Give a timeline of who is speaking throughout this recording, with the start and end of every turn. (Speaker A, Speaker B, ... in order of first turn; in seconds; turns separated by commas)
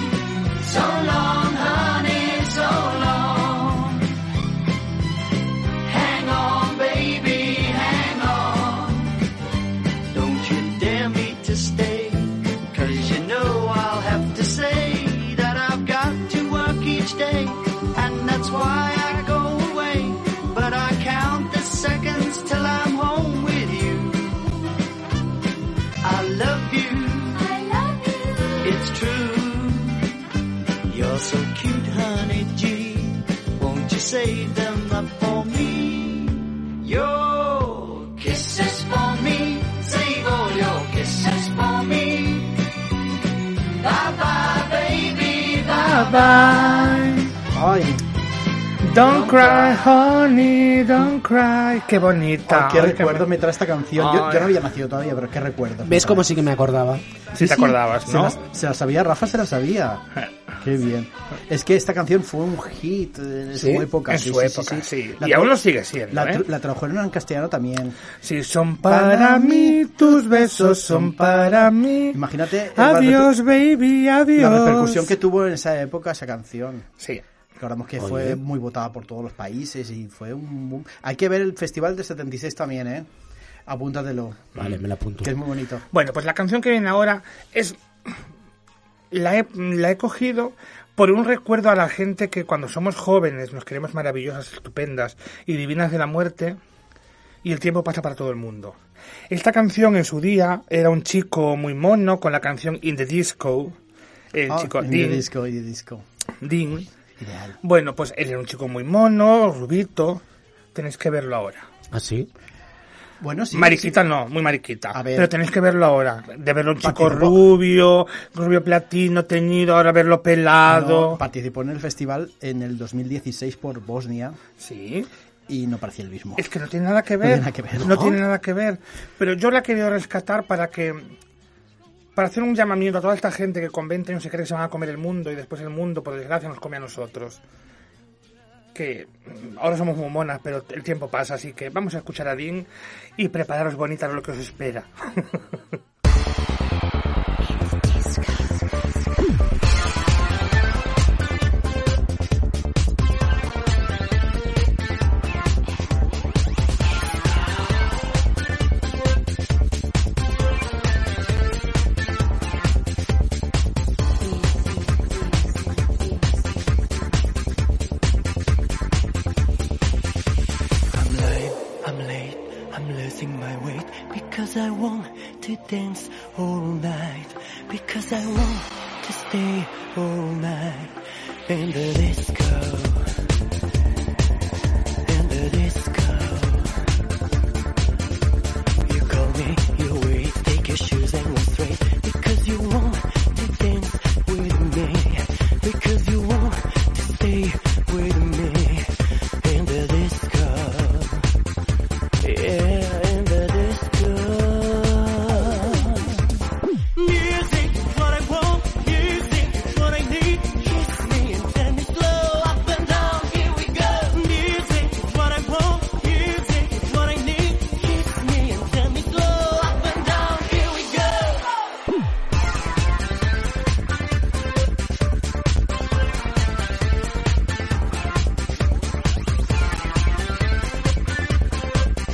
Speaker A: 0.6-4.0, Speaker A: 5.9-9.1, Speaker A: 10.1-24.5, Speaker A: 26.0-27.4, Speaker B: 27.4-28.8, Speaker A: 28.6-30.1, Speaker A: 30.9-42.6, Speaker A: 43.8-47.3, Speaker C: 45.8-47.2, Speaker D: 47.5-48.0, Speaker C: 48.8-53.3, Speaker A: 49.0-49.9, Speaker D: 52.5-56.3, Speaker C: 54.0-54.6, Speaker E: 55.8-57.0, Speaker C: 57.4-58.4, Speaker D: 57.4-60.0, Speaker D: 60.6-68.0, Speaker E: 63.5-63.9, Speaker C: 64.1-66.4, Speaker C: 68.2-72.2, Speaker D: 68.8-73.3, Speaker C: 72.8-75.1, Speaker D: 74.4-76.9, Speaker D: 77.6-83.1, Speaker E: 78.0-78.4, Speaker D: 83.7-84.6, Speaker E: 84.6-85.3, Speaker C: 84.6-84.8, Speaker D: 85.2-85.8, Speaker C: 85.9-87.8, Speaker C: 89.1-96.6, Speaker C: 97.4-98.8, Speaker C: 99.3-103.8, Speaker C: 104.3-105.3, Speaker D: 104.5-106.0, Speaker C: 106.4-106.9, Speaker D: 107.2-107.6, Speaker C: 107.6-110.2, Speaker C: 110.7-111.7, Speaker E: 111.9-112.3, Speaker D: 113.2-114.0, Speaker C: 113.5-121.2, Speaker D: 114.9-115.3, Speaker D: 116.8-117.5, Speaker D: 120.7-124.4, Speaker C: 124.6-125.1, Speaker D: 125.5-126.5, Speaker C: 126.4-131.1, Speaker D: 127.2-128.1, Speaker E: 127.8-128.1, Speaker C: 132.2-137.4, Speaker C: 138.8-142.7, Speaker C: 143.2-145.5, Speaker B: 164.2-166.9, Speaker F: 170.9-183.1, Speaker F: 185.1-186.8, Speaker F: 188.8-201.3, Speaker F: 202.2-206.2, Speaker F: 207.0-221.5